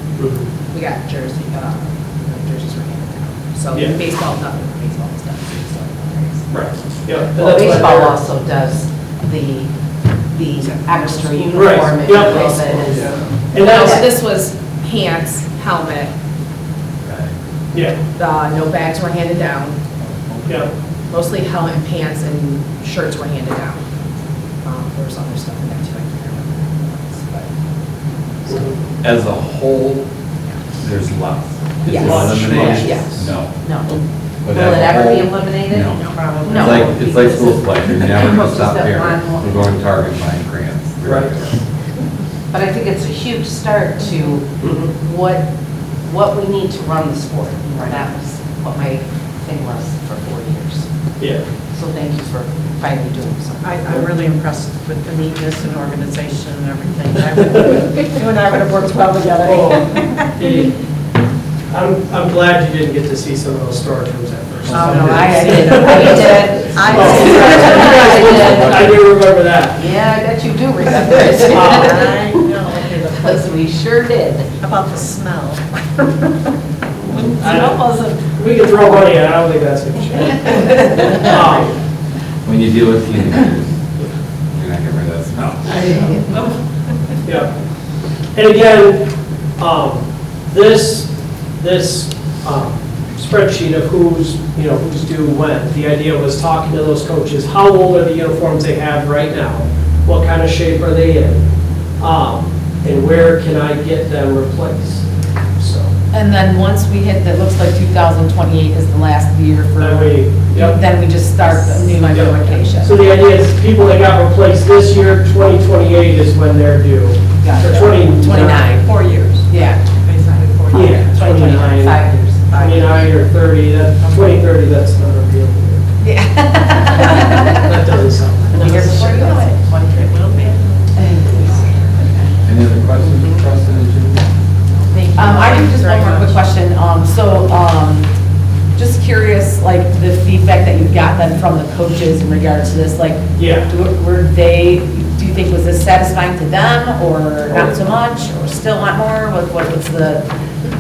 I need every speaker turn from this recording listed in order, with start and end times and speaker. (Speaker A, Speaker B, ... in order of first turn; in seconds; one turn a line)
Speaker A: 0.2-0.5
Speaker B: 0.6-6.5
Speaker A: 6.5-8.2
Speaker C: 7.4-9.7
Speaker C: 10.3-14.1
Speaker A: 11.5-14.1
Speaker B: 13.5-16.1
Speaker D: 17.0-17.4
Speaker A: 17.7-18.0
Speaker B: 18.2-19.8
Speaker D: 20.1-20.5
Speaker B: 21.1-23.8
Speaker B: 24.6-27.5
Speaker A: 28.5-28.8
Speaker D: 29.0-30.1
Speaker D: 30.8-33.5
Speaker A: 31.9-33.3
Speaker E: 32.1-33.0
Speaker C: 33.6-34.0
Speaker D: 34.4-41.6
Speaker C: 34.5-39.7
Speaker F: 36.0-37.5
Speaker A: 41.0-41.3
Speaker C: 42.5-45.5
Speaker A: 44.6-44.9
Speaker C: 46.0-50.9
Speaker C: 51.7-53.7
Speaker F: 53.6-60.2
Speaker A: 59.4-60.7
Speaker A: 61.7-69.8
Speaker E: 64.7-66.5
Speaker C: 64.9-68.9
Speaker F: 65.9-68.6
Speaker D: 68.4-69.0
Speaker C: 69.8-72.4
Speaker F: 71.1-73.5
Speaker A: 71.5-71.9
Speaker C: 73.1-74.5
Speaker F: 74.6-76.5
Speaker A: 77.1-81.8
Speaker C: 77.4-78.2
Speaker D: 82.4-83.7
Speaker D: 84.5-86.0
Speaker C: 85.8-86.3
Speaker A: 87.3-87.5
Speaker A: 88.3-101.4
Speaker A: 102.0-105.9
Speaker E: 106.1-112.9
Speaker B: 106.2-106.9
Speaker B: 108.5-109.3
Speaker A: 109.8-110.8
Speaker A: 112.0-118.8
Speaker B: 112.2-112.5
Speaker E: 117.4-118.9
Speaker F: 118.2-123.1
Speaker E: 119.5-119.8
Speaker A: 120.7-122.0
Speaker C: 121.6-122.6
Speaker A: 122.5-125.9
Speaker F: 124.0-124.4
Speaker B: 126.0-126.4
Speaker E: 126.2-127.8
Speaker A: 127.6-129.2
Speaker C: 128.5-130.6
Speaker F: 128.6-131.8
Speaker C: 131.3-131.7
Speaker D: 132.4-134.3
Speaker F: 134.9-136.4
Speaker E: 135.2-138.1
Speaker E: 138.7-150.2
Speaker A: 143.3-143.7
Speaker A: 147.5-147.8